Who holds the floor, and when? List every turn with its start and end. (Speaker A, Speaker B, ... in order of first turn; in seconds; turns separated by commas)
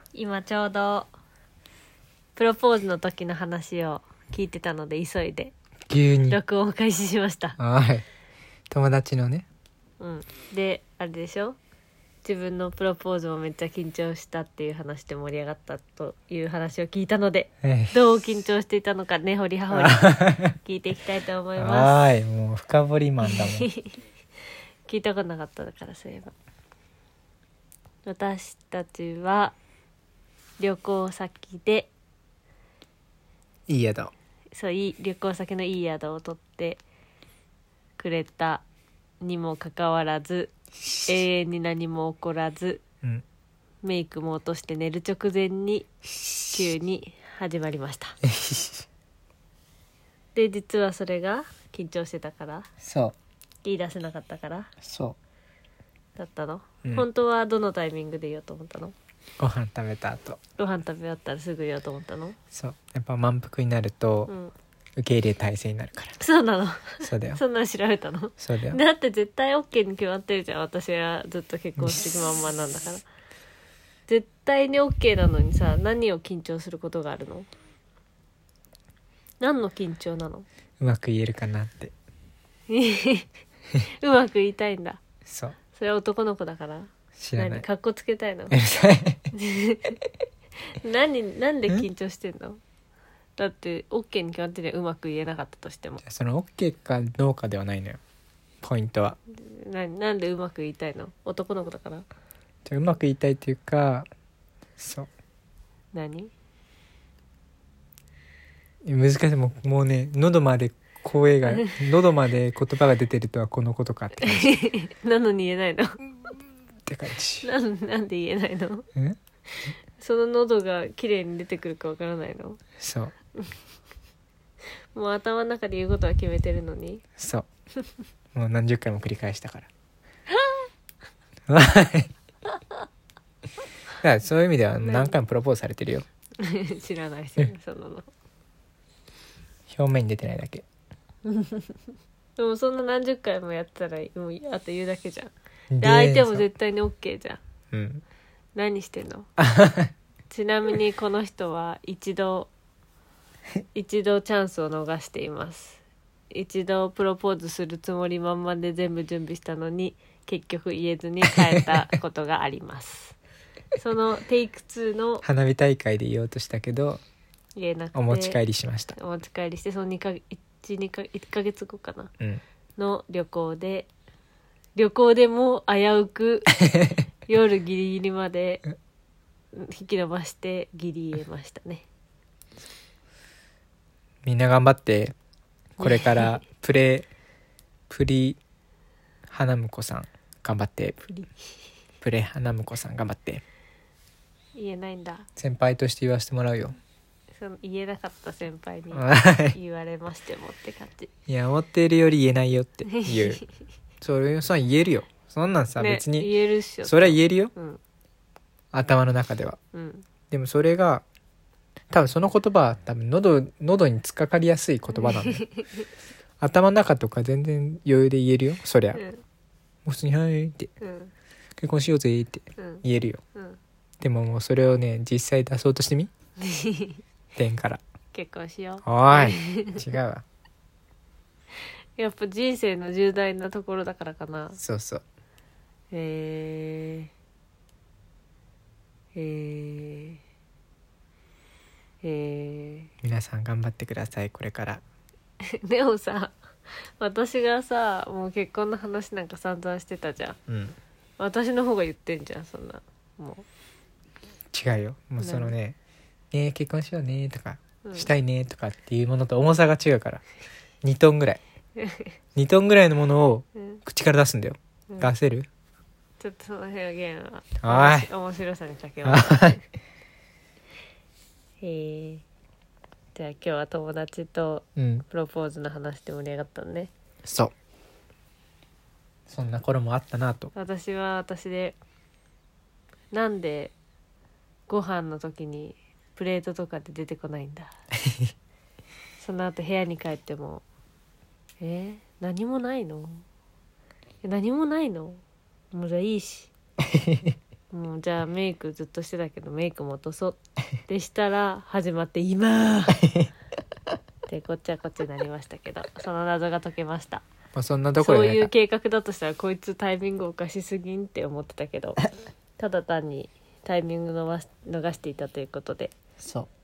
Speaker A: 0.1-1.1, Speaker A: 2.4-5.5, Speaker B: 5.9-6.4, Speaker A: 6.3-7.6, Speaker B: 7.6-8.0, Speaker B: 8.7-9.4, Speaker A: 10.0-11.6, Speaker A: 12.2-22.0, Speaker B: 17.6-17.9, Speaker B: 19.7-20.6, Speaker B: 21.6-23.7, Speaker A: 23.3-23.9, Speaker A: 24.9-26.3, Speaker A: 28.0-29.6, Speaker A: 30.6-31.9, Speaker B: 33.7-34.1, Speaker A: 34.5-36.8, Speaker A: 38.0-38.6, Speaker A: 39.2-40.5, Speaker A: 41.0-42.8, Speaker A: 43.8-45.9, Speaker A: 46.5-48.2, Speaker B: 48.2-48.8, Speaker A: 50.3-52.7, Speaker B: 52.8-53.1, Speaker A: 53.6-54.7, Speaker B: 54.8-55.2, Speaker A: 56.2-58.9, Speaker B: 59.4-60.4, Speaker A: 60.6-62.4, Speaker B: 62.5-64.3, Speaker A: 64.3-64.5, Speaker B: 65.0-66.2, Speaker A: 66.2-73.0, Speaker B: 67.0-67.4, Speaker B: 68.4-68.8, Speaker A: 74.1-77.5, Speaker A: 79.4-80.5, Speaker B: 80.8-81.9, Speaker A: 82.7-83.3, Speaker A: 84.0-85.0, Speaker B: 85.2-85.6, Speaker A: 85.7-88.5, Speaker B: 87.2-87.6, Speaker B: 88.5-89.3, Speaker A: 89.3-90.0, Speaker A: 90.7-92.6, Speaker A: 93.4-96.0, Speaker B: 96.0-98.0, Speaker B: 98.6-99.2, Speaker A: 99.3-102.0, Speaker B: 102.7-104.0, Speaker B: 104.8-105.1, Speaker A: 105.9-106.3, Speaker B: 108.8-114.5, Speaker A: 111.5-111.7, Speaker A: 114.2-115.9, Speaker B: 116.8-117.5, Speaker A: 117.4-118.9, Speaker A: 119.6-122.6, Speaker B: 122.8-123.1, Speaker A: 124.9-127.0, Speaker B: 127.2-127.5, Speaker B: 128.3-129.7, Speaker B: 131.5-132.1, Speaker B: 134.0-136.0, Speaker A: 134.8-135.2, Speaker A: 136.4-138.1, Speaker B: 139.7-140.6, Speaker A: 141.2-141.8, Speaker A: 142.4-147.4, Speaker B: 145.7-146.4, Speaker B: 147.7-148.0, Speaker A: 148.5-149.3, Speaker B: 149.4-149.9, Speaker A: 150.3-152.5, Speaker A: 153.7-155.8, Speaker A: 156.3-163.2, Speaker A: 163.8-165.2, Speaker B: 165.2-167.0, Speaker A: 167.6-168.4, Speaker B: 167.9-168.9, Speaker A: 168.9-172.1, Speaker A: 172.8-173.9, Speaker A: 174.8-176.5, Speaker B: 176.7-177.0, Speaker A: 177.2-178.6, Speaker A: 179.5-181.8, Speaker B: 184.2-185.1, Speaker B: 185.8-187.1, Speaker A: 185.8-186.4, Speaker B: 187.9-188.4, Speaker B: 189.3-191.0, Speaker A: 191.0-191.3, Speaker B: 192.0-193.4, Speaker A: 194.5-195.3, Speaker B: 195.4-196.8, Speaker A: 197.4-201.1, Speaker B: 198.9-199.6, Speaker B: 201.3-203.4, Speaker A: 202.9-203.4, Speaker B: 204.0-206.3, Speaker A: 205.8-207.8, Speaker B: 206.8-207.5, Speaker B: 208.7-209.6, Speaker A: 209.7-210.0, Speaker B: 210.3-211.0, Speaker B: 211.9-215.4, Speaker A: 214.9-215.8, Speaker B: 216.4-219.0, Speaker A: 218.9-219.2, Speaker B: 219.8-220.7, Speaker A: 220.8-221.1, Speaker B: 221.6-223.2, Speaker A: 222.6-223.6, Speaker B: 224.0-226.1, Speaker A: 226.4-227.0, Speaker B: 227.3-227.8, Speaker A: 228.1-229.8, Speaker B: 228.8-230.2, Speaker A: 232.0-234.6, Speaker B: 234.6-235.0, Speaker A: 235.9-237.1, Speaker A: 239.1-240.2, Speaker A: 242.0-242.9, Speaker B: 243.0-244.8, Speaker A: 245.4-246.3, Speaker A: 247.0-250.4, Speaker B: 250.5-250.8, Speaker A: 251.2-253.4, Speaker B: 254.5-255.8, Speaker A: 255.2-255.5, Speaker B: 256.3-260.2, Speaker A: 257.8-258.1, Speaker B: 260.8-261.4, Speaker A: 261.8-262.1, Speaker B: 262.4-265.5, Speaker A: 266.2-269.6, Speaker B: 267.6-268.1, Speaker B: 269.0-269.6, Speaker A: 271.6-272.2, Speaker A: 273.1-276.9, Speaker B: 274.8-275.1, Speaker B: 277.2-277.5, Speaker B: 279.3-280.5, Speaker A: 280.5-281.8, Speaker A: 283.1-283.7, Speaker A: 284.7-287.7, Speaker A: 289.2-290.6, Speaker A: 291.6-293.2, Speaker A: 294.2-296.5, Speaker B: 296.9-297.3, Speaker A: 297.7-303.0, Speaker B: 303.0-303.3, Speaker A: 304.3-307.2, Speaker B: 307.5-308.5, Speaker A: 308.0-315.9, Speaker B: 316.2-316.5